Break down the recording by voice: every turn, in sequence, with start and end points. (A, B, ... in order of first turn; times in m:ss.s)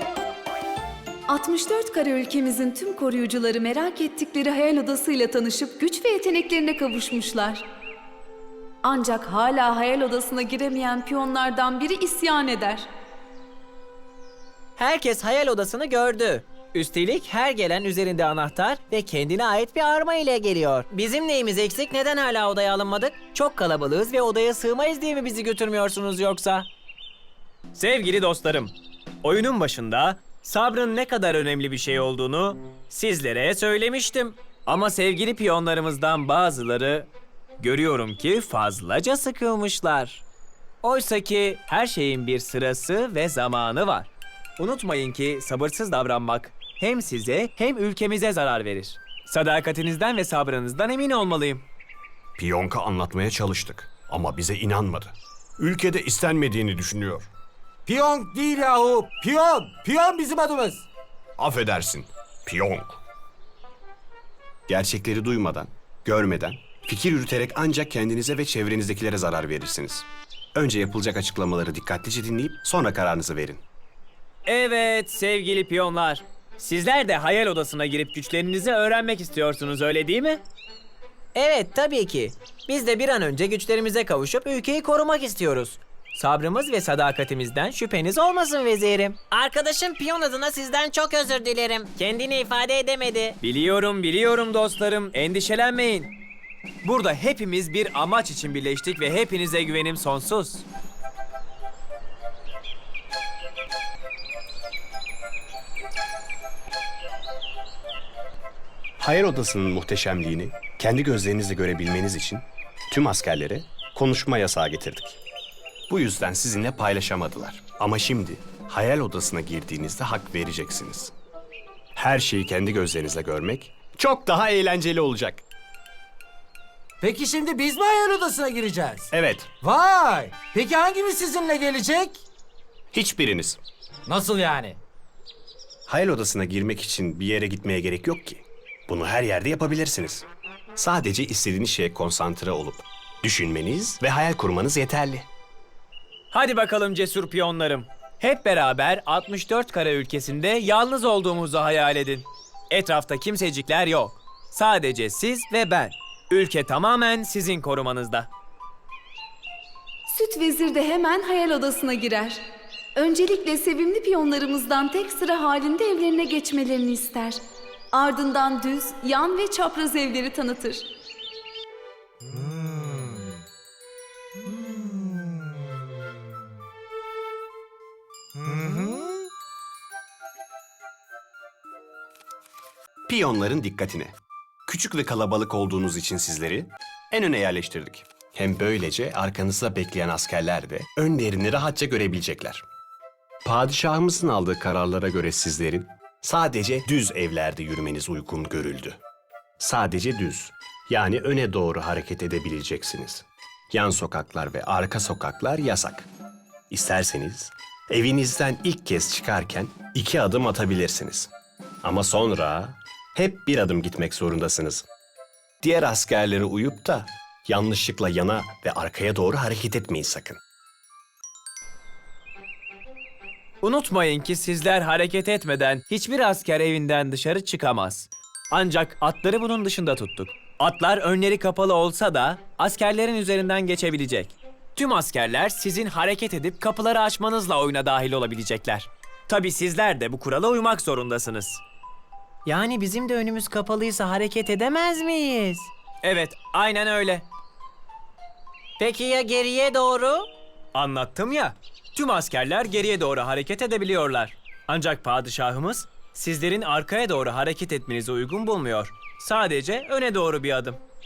0:01.3-0:07.6 A
0:08.8-0:12.9 A
0:14.8-0:26.7 B
0:16.5-0:17.2 C
0:18.1-0:18.5 C
0:27.7-0:40.2 C
0:40.8-0:51.6 C
0:52.4-0:57.3 D
0:57.8-1:00.8 E
1:01.4-1:03.0 D
1:04.7-1:13.6 D
1:14.4-1:20.4 C
1:21.3-1:25.8 B
1:25.6-1:28.2 C
1:27.7-1:33.4 B
1:33.4-1:36.1 C
1:36.8-1:40.6 C
1:49.0-1:55.2 D
1:55.9-2:01.1 D
2:02.0-2:05.4 D
2:07.0-2:09.1 E
2:09.1-2:09.5 D
2:09.6-2:12.2 E
2:12.9-2:13.6 D
2:14.1-2:14.8 E
2:15.9-2:25.3 D
2:26.3-2:38.3 C
2:40.1-2:42.4 A
2:42.9-2:47.4 A
2:47.9-2:50.9 A
3:03.1-3:04.1 D
3:04.7-3:12.6 D
3:13.4-3:19.0 D
3:19.6-3:26.1 D
3:26.7-3:31.3 D
3:31.8-3:34.9 D
3:35.6-3:40.4 D
3:43.6-4:01.6 C
4:02.4-4:05.7 B
4:06.0-4:07.2 C
4:08.8-4:10.3 B
4:10.7-4:20.8 C